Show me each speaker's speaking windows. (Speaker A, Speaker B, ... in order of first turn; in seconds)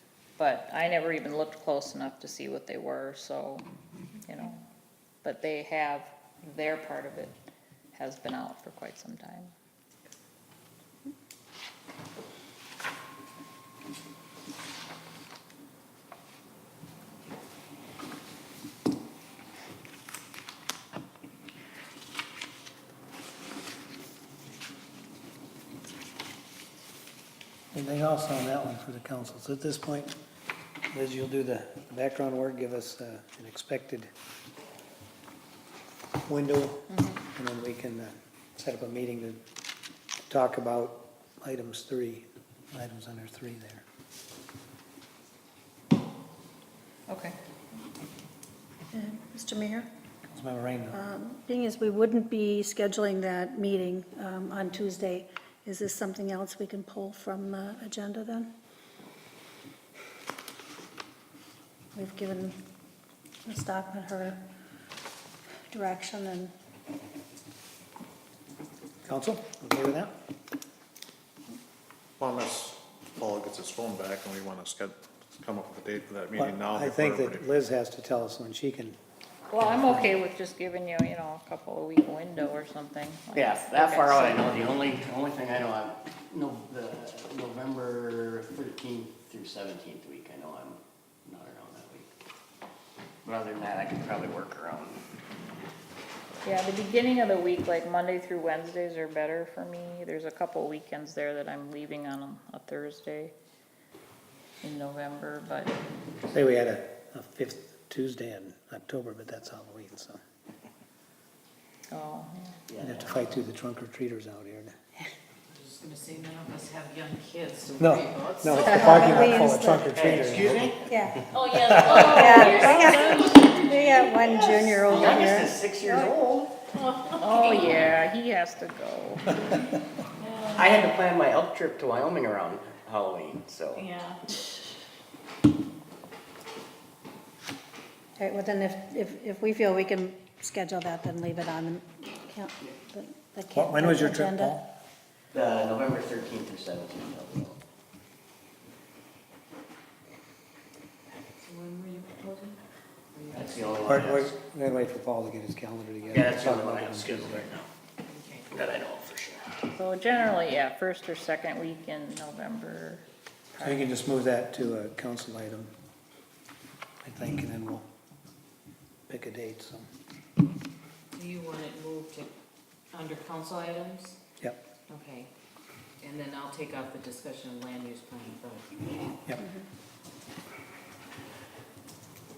Speaker A: 0.4-3.6, 4.2-4.6, 5.2-7.3, 7.9-9.5, 36.9-37.2, 47.1-47.4, 79.5-84.4, 96.4-103.3, 104.6-105.8, 111.9-112.6, 122.4-122.9, 127.1-129.5, 159.7-163.8
Speaker B: 27.7-30.1, 30.9-34.1, 36.2-39.4, 40.3-43.8, 50.3-51.0, 69.0-70.1, 76.3-79.0, 79.7-80.1, 106.3-110.2, 112.8-114.7, 117.8-120.7, 121.5-122.3, 143.5-144.7, 153.8-157.5, 163.6-165.7, 167.0-167.9, 169.1-169.9
Speaker C: 48.9-49.9, 50.9-58.5, 61.9-62.6, 63.4-64.4, 65.7-66.5, 118.5-119.9, 120.8-121.2, 121.8-126.1, 138.2-144.5, 179.4-179.7
Speaker D: 72.2-77.5
Speaker E: 83.3-92.1, 93.2-95.0, 112.7-113.3, 119.9-120.9, 124.9-126.5, 130.5-133.9, 145.3-147.6, 153.3-154.3, 156.1-157.7, 158.5-159.6
Speaker F: 115.5-119.6, 121.3-125.1, 126.7-127.9, 130.2-130.7, 133.7-134.2, 151.4-152.6, 153.1-153.8, 158.1-158.5, 171.1-172.3, 172.9-174.2, 174.9-175.3, 176.0-178.7